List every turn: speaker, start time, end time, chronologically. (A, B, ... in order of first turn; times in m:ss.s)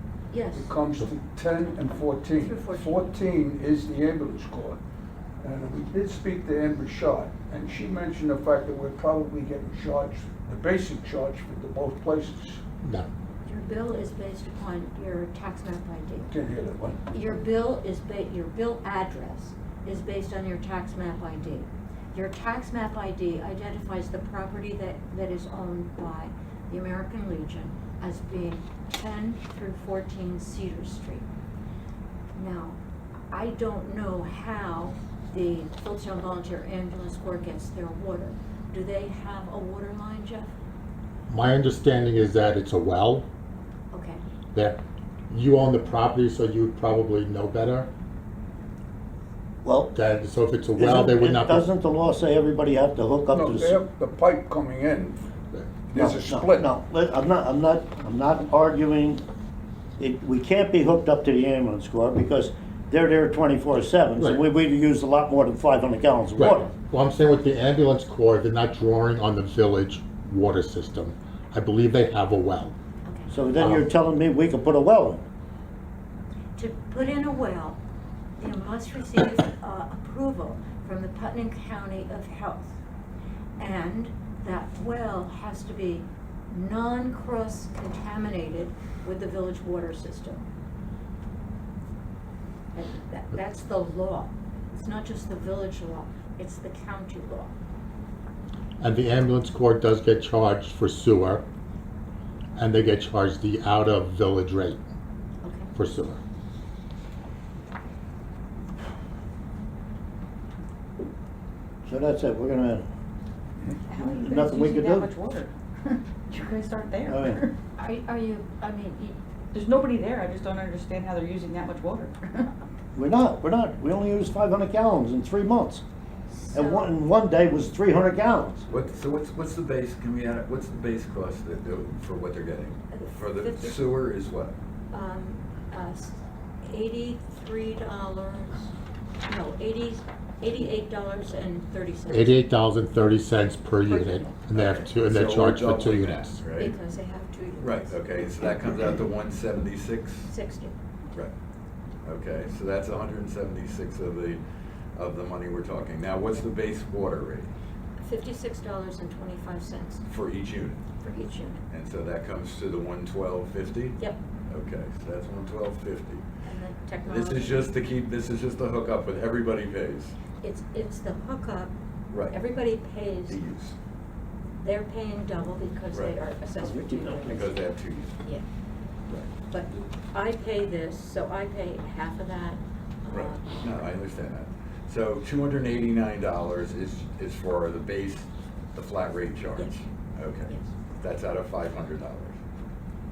0:00.3-0:00.7 A
0:00.5-0:04.8 B
0:02.4-0:03.1 A
0:05.4-0:12.6 B
0:13.4-0:16.3 A
0:16.2-0:17.0 B
0:17.1-0:31.2 A
0:32.4-0:32.8 A
0:33.3-0:40.5 A
0:41.3-0:43.2 C
0:43.9-0:44.2 A
0:44.5-0:47.9 C
0:49.6-0:49.9 D
0:49.9-0:51.6 C
0:50.8-0:53.8 D
0:53.3-0:55.2 B
0:55.8-0:56.7 B
0:55.9-0:59.2 D
1:00.0-1:06.7 D
1:06.4-1:12.7 C
1:13.0-1:13.4 A
1:13.3-1:15.2 D
1:13.6-1:13.8 C
1:16.6-1:17.8 A
1:18.4-1:22.8 A
1:23.6-1:30.4 A
1:32.7-1:37.5 A
1:38.8-1:41.4 C
1:42.6-1:44.8 C
1:45.4-1:45.7 A
1:45.7-1:46.2 C
1:51.8-1:52.8 D
1:53.9-1:57.5 E
1:54.0-1:55.1 D
1:57.1-1:57.4 D
1:57.8-1:59.2 A
1:59.5-2:02.5 E
2:02.9-2:05.8 D
2:06.3-2:06.9 A
2:06.5-2:08.6 D
2:08.7-2:14.6 F
2:12.9-2:13.9 A
2:14.9-2:18.7 A
2:19.2-2:22.4 A
2:22.1-2:26.4 C
2:23.8-2:24.9 A
2:24.6-2:26.7 F
2:26.6-2:28.0 A
2:27.6-2:30.3 F
2:30.3-2:30.7 A
2:32.0-2:34.4 F
2:35.0-2:37.5 F
2:38.0-2:40.0 A
2:40.0-2:40.8 F
2:41.0-2:41.6 A
2:41.7-2:46.2 F
2:46.4-2:47.7 A
2:47.0-2:50.2 F
2:50.4-2:51.7 A
2:52.1-2:52.4 F
2:52.3-2:53.4 A
2:53.2-2:53.8 F
2:54.6-2:57.6 A
2:56.6-2:57.5 D
2:57.3-2:58.2 F
2:59.5-3:03.5 A
3:03.1-3:12.4 F